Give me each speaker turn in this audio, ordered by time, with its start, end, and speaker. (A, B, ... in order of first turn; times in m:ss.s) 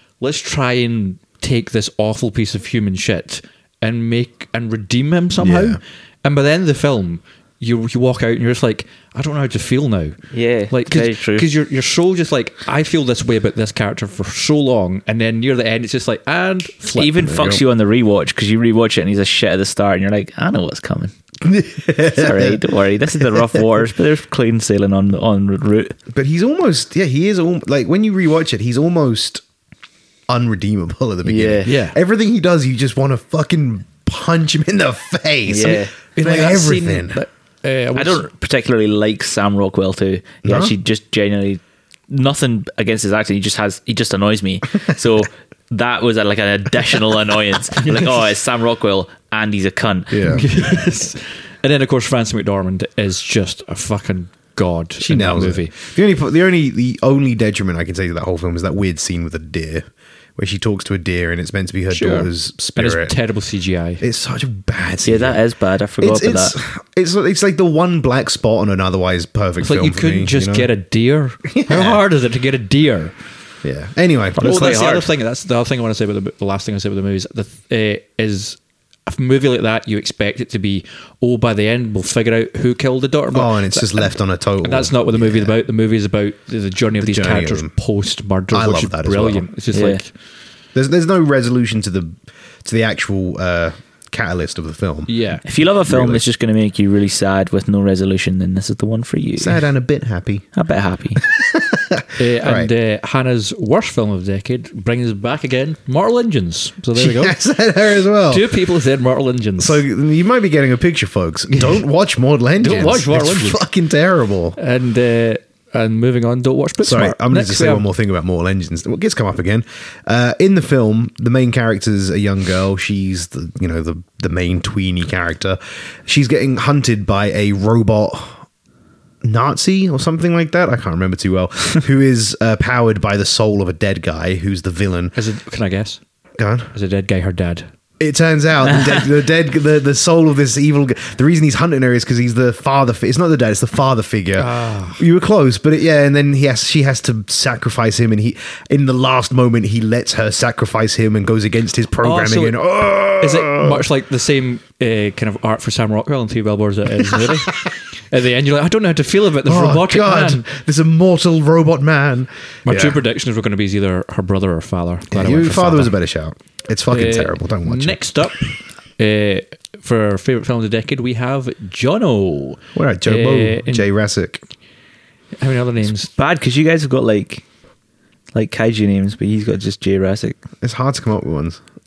0:00.2-0:10.2 A
0:05.4-0:05.8 B
0:10.3-0:11.5 C
0:10.7-0:17.2 A
0:17.0-0:21.1 C
0:17.2-0:17.6 B
0:21.4-0:22.6 B
0:22.1-0:26.0 C
0:26.1-0:29.4 B
0:30.3-0:37.2 B
0:31.2-0:31.8 C
0:31.6-0:32.0 A
0:35.5-0:35.9 C
0:36.2-0:38.3 A
0:38.0-0:50.4 C
0:40.4-0:40.7 B
0:50.1-0:50.4 B
0:50.3-0:55.7 A
0:55.0-0:59.8 B
1:00.4-1:03.2 B
1:01.9-1:04.0 A
1:04.0-1:05.4 B
1:05.0-1:06.6 C
1:06.0-1:10.7 B
1:09.6-1:13.1 A
1:11.5-1:12.0 B
1:13.6-1:14.8 B
1:14.4-1:15.1 C
1:14.4-1:30.1 A
1:23.3-1:25.5 B
1:27.0-1:27.7 B
1:28.5-1:29.5 B
1:29.7-1:30.0 C
1:30.8-1:35.1 B
1:35.1-1:35.4 A
1:35.4-1:39.6 C
1:35.9-1:36.2 B
1:39.4-1:40.5 B
1:40.5-1:41.2 C
1:41.2-1:42.7 B
1:42.2-1:47.4 A
1:47.0-1:48.5 B
1:48.3-1:49.8 A
1:49.6-1:54.6 B
1:52.6-1:53.6 A
1:54.6-1:57.8 A
1:56.8-2:08.4 B
2:09.2-2:15.2 B
2:15.2-2:16.0 A
2:16.4-2:16.7 B
2:16.7-2:17.7 A
2:18.0-2:33.8 B
2:24.4-2:25.0 A
2:32.0-2:40.4 A
2:37.1-2:37.7 B
2:39.4-2:43.0 B
2:42.7-2:45.9 A
2:45.1-2:48.0 B
2:46.9-2:53.9 A
2:52.8-2:54.4 B
2:55.4-2:56.1 A
2:56.2-2:57.4 C
2:58.4-3:00.4 C
3:00.6-3:01.6 B